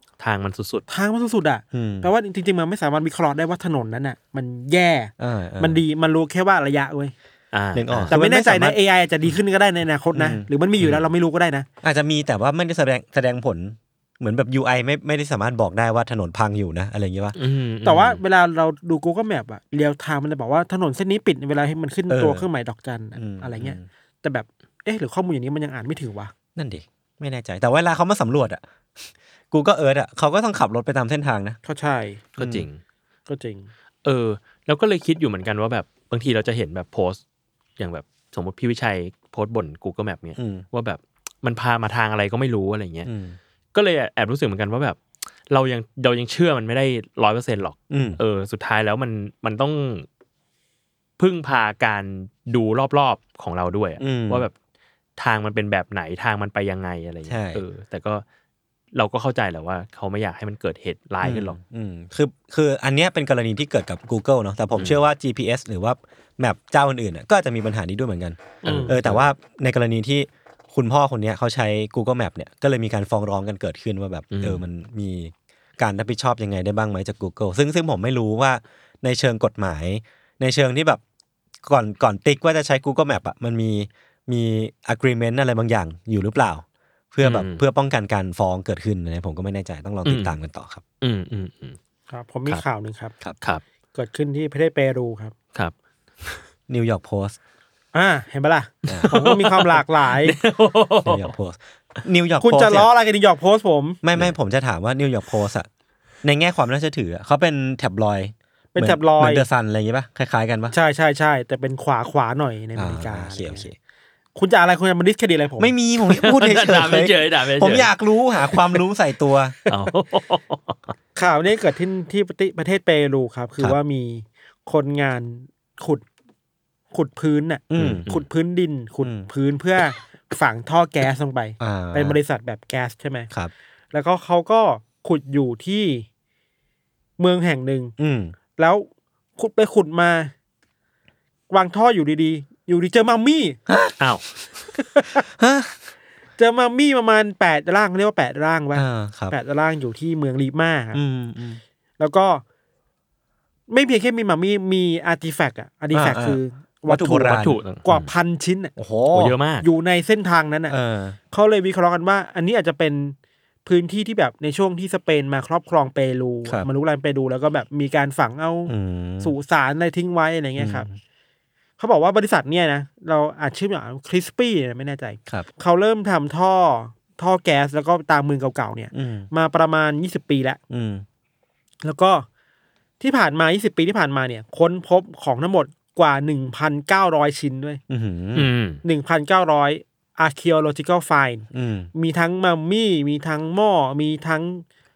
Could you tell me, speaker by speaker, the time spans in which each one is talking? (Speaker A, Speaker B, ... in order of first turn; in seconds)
Speaker A: 0.2-0.8, 7.5-8.1, 17.4-18.2, 32.4-32.8, 34.0-37.2, 37.8-43.1, 43.7-50.1, 51.2-54.5, 55.2-58.2, 58.9-61.6, 68.6-69.2, 74.3-74.6, 87.2-87.6, 90.0-90.3, 91.0-91.8, 95.5-96.4, 98.9-101.3, 116.0-117.9, 119.7-120.9, 127.8-128.2, 144.0-144.3, 157.3-158.1, 159.1-159.7, 188.3-188.8
Speaker B: 0.9-7.1, 8.1-11.7, 17.8-26.3, 31.6-32.2, 33.3-33.7, 68.6-68.9, 92.1-93.1, 93.9-95.3, 97.9-100.4, 102.4-104.0, 108.7-109.5, 110.7-113.7, 114.3-115.7, 121.2-126.0, 126.9-133.3, 133.9-136.1, 137.2-137.9, 138.6-140.3, 141.5-143.6, 144.8-145.2, 146.4-151.0, 152.0-152.4, 153.7-158.7, 159.6-160.8, 161.3-170.9, 171.8-180.6, 181.8-182.2, 183.0-187.8, 188.8-194.6
Speaker C: 1.7-2.1, 5.2-5.8, 7.7-8.8, 10.1-10.9, 11.8-17.4, 22.1-22.4, 23.1-23.8, 26.6-28.6, 29.5-31.6, 32.4-32.7, 40.4-40.6, 43.0-43.4, 47.9-48.2, 54.0-54.4, 57.3-57.6, 61.2-81.0, 81.6-90.8, 96.7-97.4, 98.9-99.1, 101.0-102.9, 104.0-105.7, 106.2-110.8, 112.7-113.7, 115.6-119.5, 127.7-128.0, 131.6-132.2, 138.0-138.3, 143.7-143.9, 145.3-145.8, 148.7-149.3, 150.9-151.6, 155.9-157.6, 158.8-159.3, 160.7-161.2, 168.7-169.3, 170.6-170.9, 178.9-179.3, 180.7-181.0, 187.9-188.5, 191.5-191.9